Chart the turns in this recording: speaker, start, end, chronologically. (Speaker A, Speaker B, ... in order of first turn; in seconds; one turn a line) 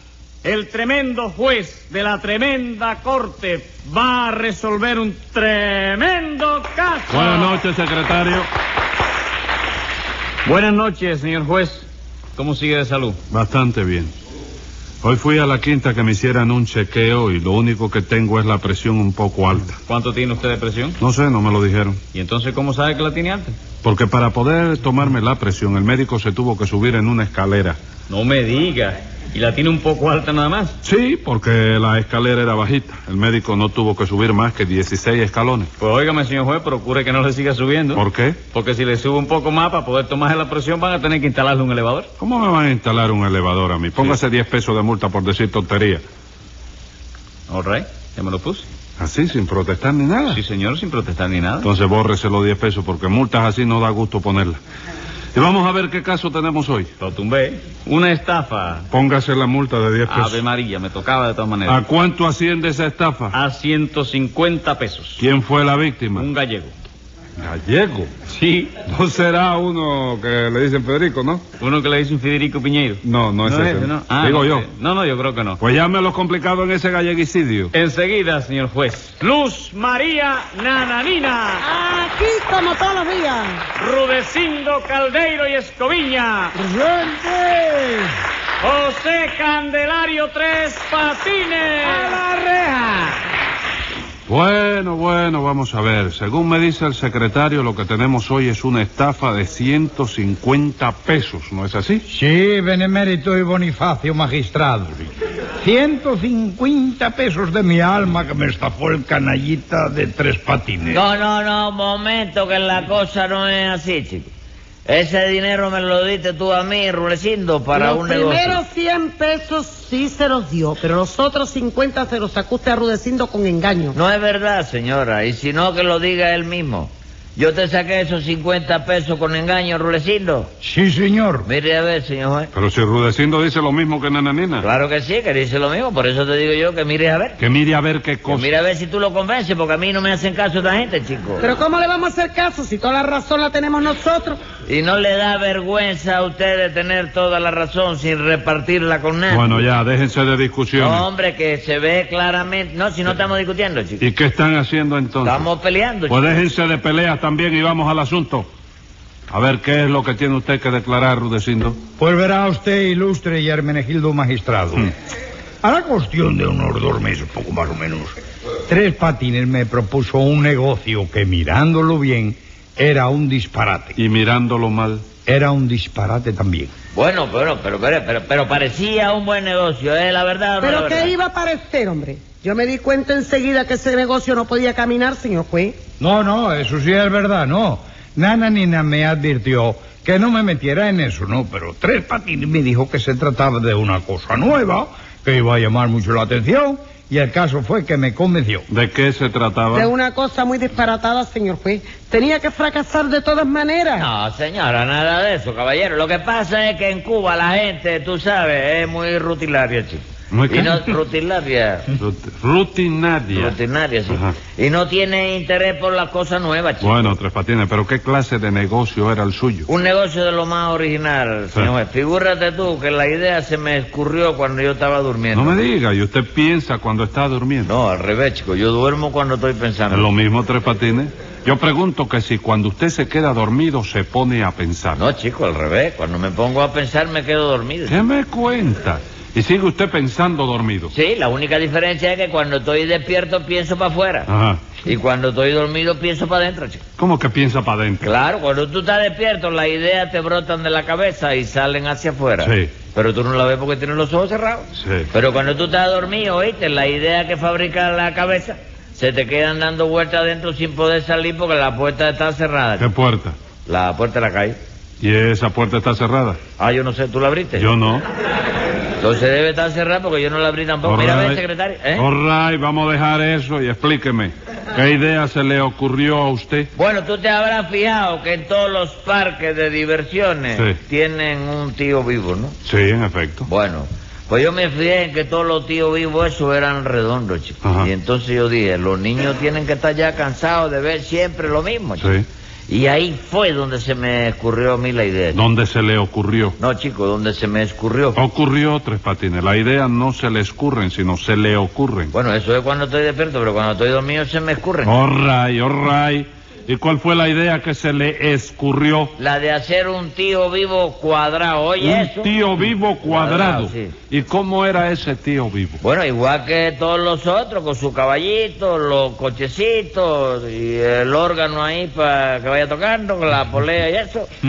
Speaker A: 0.4-7.6
Speaker B: 7.1-8.5
Speaker A: 10.4-13.2
Speaker B: 13.3-14.1
Speaker B: 15.0-19.8
Speaker A: 19.9-21.0
Speaker B: 21.0-22.0
Speaker A: 22.1-23.6
Speaker B: 23.8-27.8
Speaker A: 28.1-30.7
Speaker B: 30.8-35.7
Speaker A: 35.8-42.1
Speaker B: 37.9-38.4
Speaker B: 42.2-46.0
Speaker A: 47.5-48.6
Speaker B: 49.0-50.4
Speaker A: 50.3-51.7
Speaker B: 51.6-54.6
Speaker B: 55.3-56.9
Speaker A: 57.0-58.9
Speaker B: 58.9-60.4
Speaker A: 60.0-61.8
Speaker B: 61.6-63.4
Speaker A: 63.3-65.2
Speaker B: 65.2-66.3
Speaker A: 66.1-66.7
Speaker B: 67.4-68.1
Speaker A: 68.3-68.8
Speaker B: 68.8-71.5
Speaker A: 71.6-75.6
Speaker B: 73.0-74.7
Speaker B: 75.6-77.7
Speaker A: 77.7-81.6
Speaker C: 81.6-83.6
Speaker A: 83.8-86.5
Speaker D: 86.5-88.1
Speaker A: 88.6-92.1
Speaker E: 92.6-92.9
Speaker B: 94.3-102.0
Speaker D: 102.1-111.0
Speaker E: 110.9-114.3
Speaker E: 114.8-118.6
Speaker C: 117.7-123.9
Speaker E: 123.9-130.5
Speaker D: 130.6-131.5
Speaker E: 131.4-132.5
Speaker B: 132.5-134.7
Speaker E: 134.6-137.4
Speaker B: 137.4-138.5
Speaker E: 138.3-141.4
Speaker C: 141.4-144.4
Speaker E: 144.7-149.6
Speaker B: 149.3-151.1
Speaker E: 150.7-154.0
Speaker B: 154.0-155.5
Speaker E: 155.2-156.4
Speaker B: 156.1-158.5
Speaker B: 159.3-161.8
Speaker D: 162.0-164.9
Speaker D: 165.6-168.1
Speaker D: 168.7-174.0
Speaker B: 173.9-175.0
Speaker D: 175.2-176.7
Speaker E: 176.9-181.1
Speaker C: 180.6-185.7
Speaker D: 186.0-198.7
Speaker B: 198.7-199.9
Speaker C: 199.7-204.1
Speaker E: 203.9-211.9
Speaker B: 210.3-210.9
Speaker B: 212.0-213.6
Speaker E: 213.3-217.2
Speaker B: 214.1-214.3
Speaker B: 216.8-219.7
Speaker E: 219.7-225.6
Speaker B: 225.3-227.7
Speaker E: 227.6-230.1
Speaker B: 229.9-235.0
Speaker E: 234.9-238.0
Speaker B: 237.9-240.9
Speaker E: 240.9-244.3
Speaker B: 244.3-244.7
Speaker E: 244.8-246.8
Speaker B: 247.0-248.1
Speaker E: 248.0-262.9
Speaker B: 252.4-252.7
Speaker B: 254.7-255.1
Speaker B: 262.8-263.4
Speaker E: 263.6-264.6
Speaker B: 265.0-266.4
Speaker E: 266.6-267.7
Speaker B: 267.5-268.0
Speaker E: 269.0-272.1
Speaker B: 270.8-271.4
Speaker B: 271.9-276.7
Speaker E: 276.7-282.6
Speaker B: 280.5-280.8
Speaker B: 282.6-283.5
Speaker E: 283.5-292.1
Speaker B: 287.6-287.9
Speaker B: 292.0-292.2
Speaker E: 292.7-295.4
Speaker B: 295.3-296.6
Speaker E: 296.6-298.2
Speaker B: 298.1-302.1
Speaker E: 302.1-304.9
Speaker B: 304.8-309.1
Speaker E: 309.2-312.3
Speaker B: 311.8-315.8
Speaker E: 313.1-313.9
Speaker E: 315.8-324.3